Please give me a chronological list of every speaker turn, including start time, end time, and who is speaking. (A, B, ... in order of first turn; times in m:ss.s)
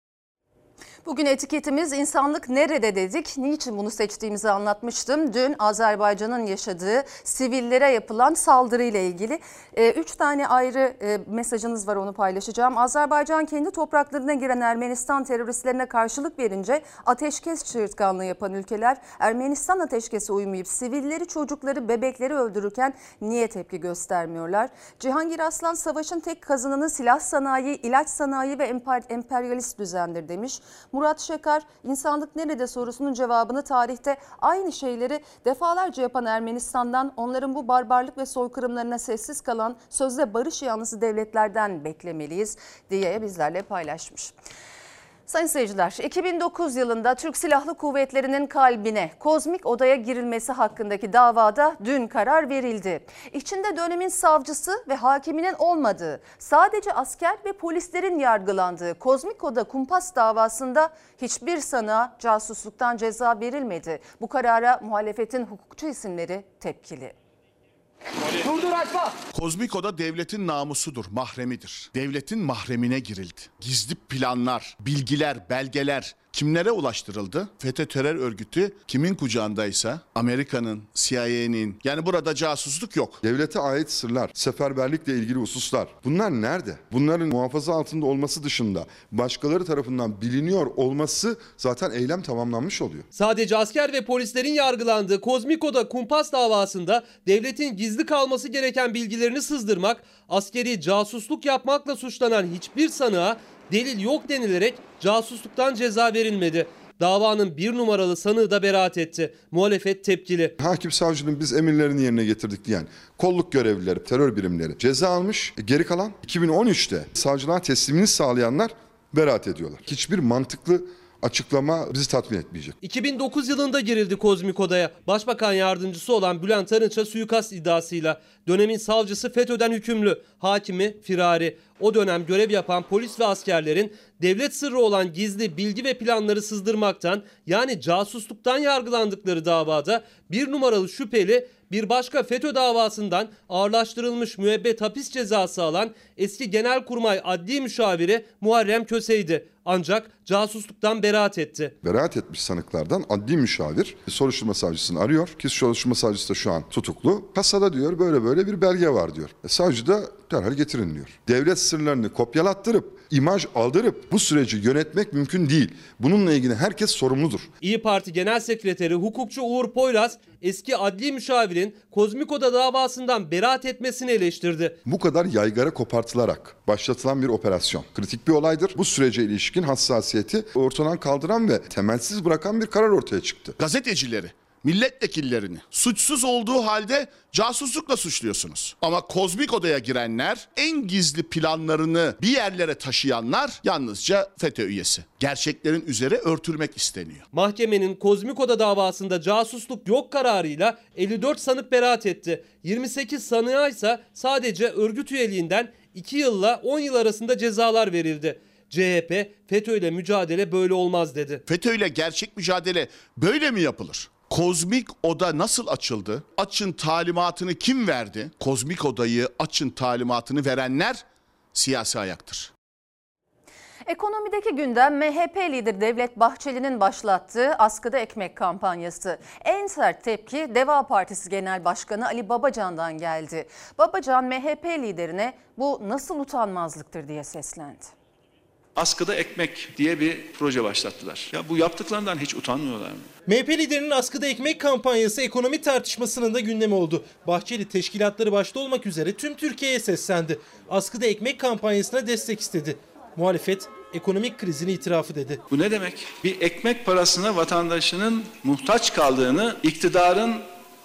0:01.0-0:44.3 A
0:45.3-1:07.1 A
1:09.3-1:23.2 B
1:23.2-1:33.1 C
1:33.1-1:50.5 D
1:50.6-2:02.8 C
2:02.8-2:31.7 D
2:31.8-2:47.5 C
2:47.6-2:54.8 D
2:54.8-3:03.6 C
3:03.6-3:17.2 B
3:17.3-3:31.4 D
3:31.5-3:42.5 B
3:43.9-3:57.9 A
3:58.8-4:03.1 E
4:03.3-4:15.4 F
4:15.5-4:20.4 E